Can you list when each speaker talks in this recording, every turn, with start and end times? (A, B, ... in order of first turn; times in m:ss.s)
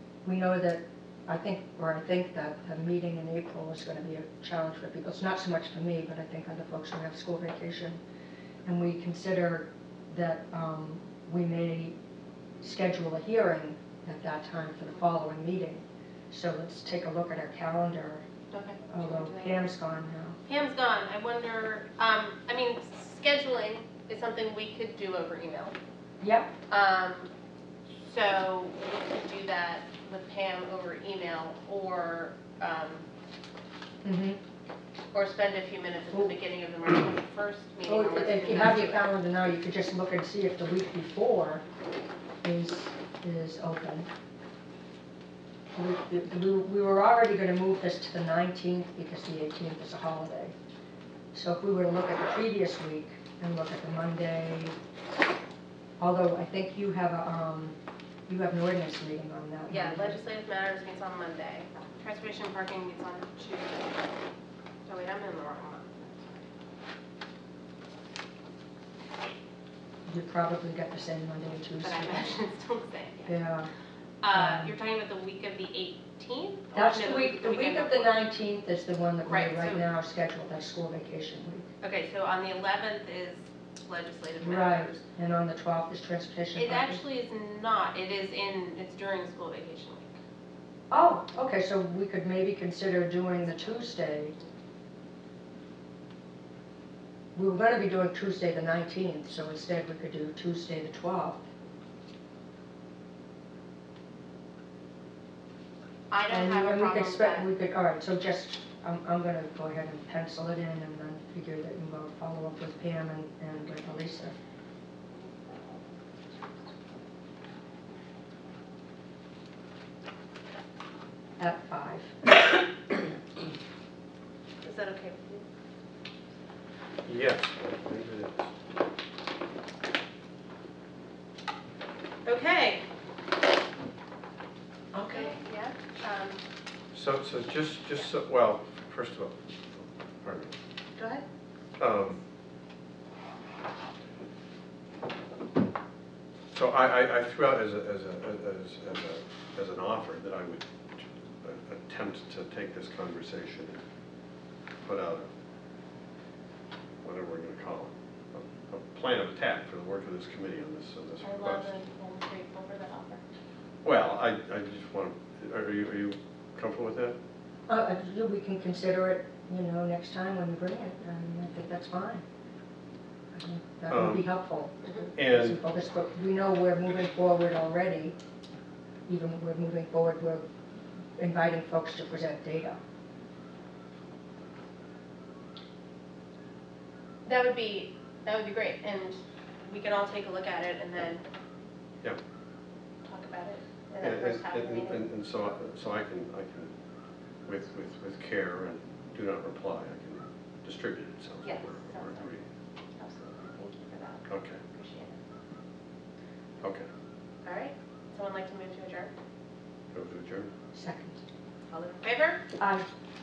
0:00.2-0:08.0 A
0:08.6-0:12.0 A
0:12.6-0:18.2 A
0:18.5-0:19.7 B
0:18.9-0:20.4 A
0:20.4-0:25.7 B
0:26.2-0:26.5 A
0:26.7-0:27.3 B
0:28.0-0:33.1 B
0:34.0-0:34.4 A
0:35.1-0:39.1 B
0:37.9-0:41.6 A
0:42.4-0:44.1 A
0:45.7-0:50.5 A
0:51.3-0:54.8 A
0:56.0-1:00.2 A
0:59.7-1:04.1 B
1:04.9-1:06.4 B
1:10.1-1:12.4 A
1:11.8-1:13.4 B
1:13.3-1:13.7 A
1:14.2-1:18.2 B
1:14.3-1:14.7 A
1:16.7-1:21.7 A
1:19.2-1:19.8 B
1:21.8-1:25.0 B
1:24.4-1:27.0 A
1:26.6-1:30.2 B
1:30.9-1:34.4 A
1:33.4-1:34.5 B
1:37.4-1:41.4 A
1:46.1-1:47.5 B
1:46.3-1:54.4 A
2:01.4-2:02.4 A
2:04.6-2:05.5 B
2:07.1-2:08.5 C
2:12.2-2:12.9 B
2:14.9-2:16.4 B
2:15.0-2:15.3 A
2:16.9-2:19.4 C
2:20.2-2:20.5 C
2:21.0-2:21.2 B
2:21.8-2:22.2 C
2:26.5-2:33.8 C
2:34.8-2:35.3 C
2:37.0-2:41.7 C
2:41.2-2:43.2 B
2:43.8-2:47.2 C
2:47.7-2:52.2 A
2:53.3-2:58.2 A
2:53.9-2:54.3 C
2:55.2-2:55.6 C
2:59.1-3:00.4 A
3:01.2-3:02.8 A
3:07.3-3:11.2 B
3:13.0-3:15.0 B
3:14.0-3:16.7 C
3:17.4-3:22.4 C
3:21.4-3:22.4 B
3:23.0-3:25.2 B
3:24.3-3:24.6 C
3:26.6-3:26.9 C
3:27.4-3:29.1 B
3:29.9-3:30.5 C
3:30.7-3:31.2 A
3:31.7-3:32.4 B
3:32.6-3:32.9 A